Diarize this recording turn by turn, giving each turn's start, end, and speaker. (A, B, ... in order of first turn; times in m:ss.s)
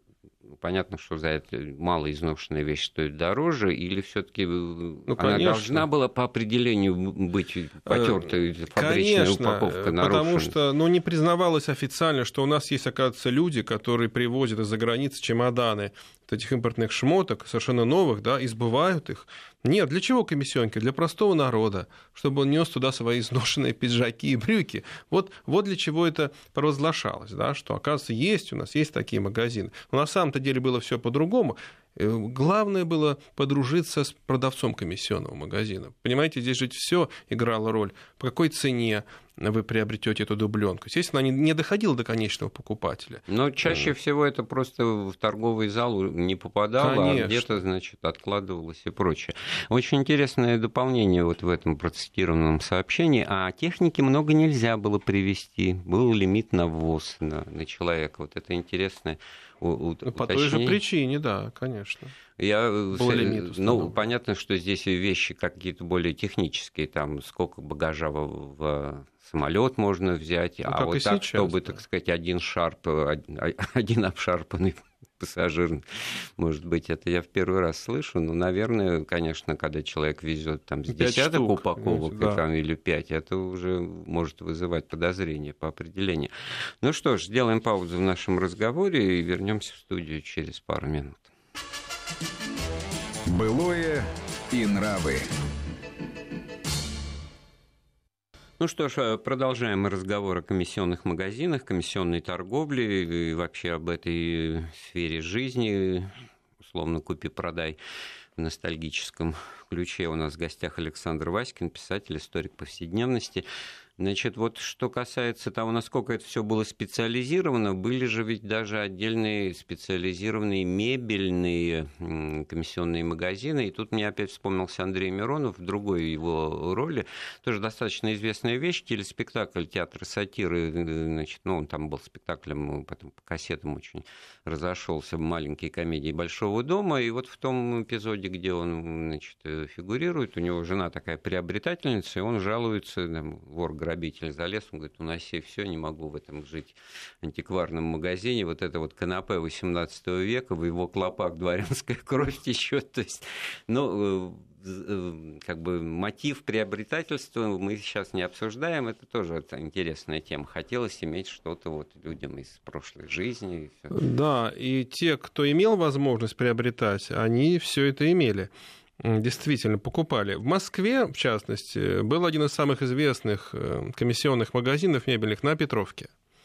0:00.6-0:10.5 A
0:05.1-0:05.8 B
0:07.9-0:43.9 B
0:43.3-1:00.8 A
0:46.8-0:47.5 B
1:00.0-1:02.1 B
1:02.4-1:31.3 A
1:02.9-1:04.0 B
1:10.7-1:11.8 B
1:20.9-1:22.4 B
1:33.3-1:35.2 C
1:38.6-1:47.8 A
1:48.4-1:53.4 A
1:54.0-2:44.0 A
2:43.9-2:56.1 B